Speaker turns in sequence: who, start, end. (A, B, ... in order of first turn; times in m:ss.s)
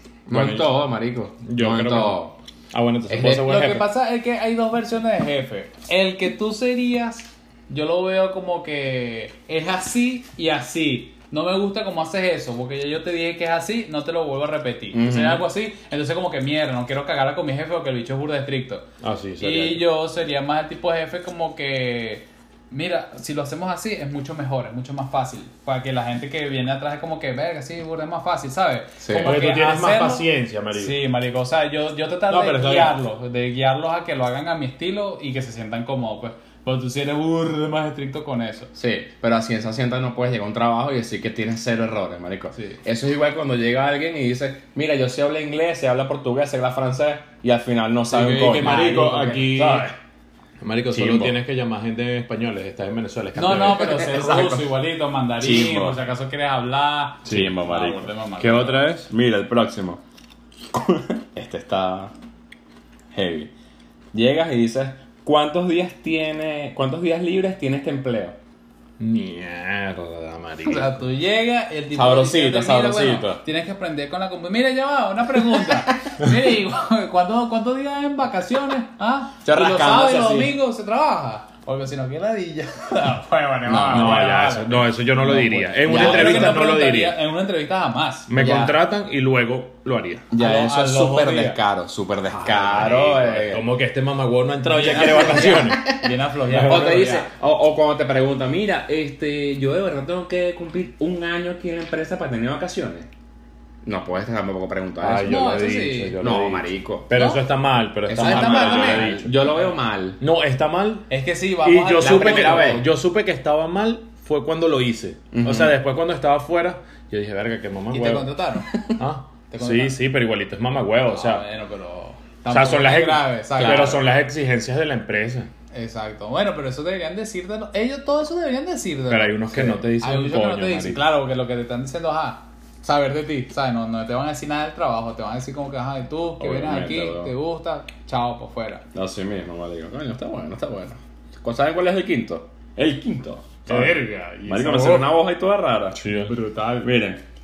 0:00.3-0:02.4 A
0:00.3-0:00.7 B
0:01.4-0:03.9 B
0:03.1-0:03.5 A
0:03.2-0:18.9 C
0:14.9-0:15.4 A
0:19.0-0:19.8 B
0:19.4-0:38.7 C
0:29.0-0:29.4 A
0:29.1-0:31.0 B
0:32.3-0:33.0 B
0:38.8-0:49.9 A
0:48.1-0:49.9 B
0:48.6-0:49.2 C
0:50.6-0:54.5 B
0:50.9-0:51.4 A
0:53.4-0:58.9 C
0:53.7-0:54.7 A
0:55.4-0:56.0 A
0:57.2-0:57.5 B
0:57.3-0:58.1 A
0:58.4-0:59.1 B
0:59.1-1:00.0 A
1:00.7-1:02.1 A
1:03.1-1:03.5 A
1:04.1-1:08.4 A
1:09.0-1:11.0 B
1:10.6-1:28.3 C
1:11.9-1:13.4 A
1:19.4-1:20.5 A
1:23.7-1:24.2 A
1:23.9-1:27.2 B
1:25.8-1:26.6 A
1:28.3-1:30.3 B
1:28.4-1:28.8 A
1:30.3-1:33.7 A
1:30.4-1:31.6 C
1:32.3-1:35.8 B
1:34.6-1:37.3 C
1:34.9-1:36.0 A
1:36.4-1:37.0 B
1:36.6-1:43.1 A
1:43.8-1:45.5 A
1:45.0-1:49.6 B
1:45.2-1:46.2 C
1:46.2-1:47.1 A
1:47.1-1:47.4 C
1:48.1-1:50.2 A
1:48.1-1:49.6 C
1:50.2-1:51.1 B
1:51.1-1:52.8 C
1:51.6-1:58.3 B
1:52.0-1:52.8 A
1:55.3-1:55.8 A
1:57.9-1:58.7 C
1:58.6-1:58.9 A
1:59.0-2:01.4 B
1:59.5-2:00.0 C
2:01.1-2:04.0 C
2:02.5-2:05.5 B
2:03.6-2:03.9 A
2:05.7-2:18.8 C
2:09.1-2:11.1 B
2:16.4-2:17.3 A
2:19.0-2:26.1 A
2:23.7-2:25.1 C
2:23.7-2:24.1 B
2:26.0-2:26.4 B
2:26.3-2:26.9 C
2:26.8-2:27.2 A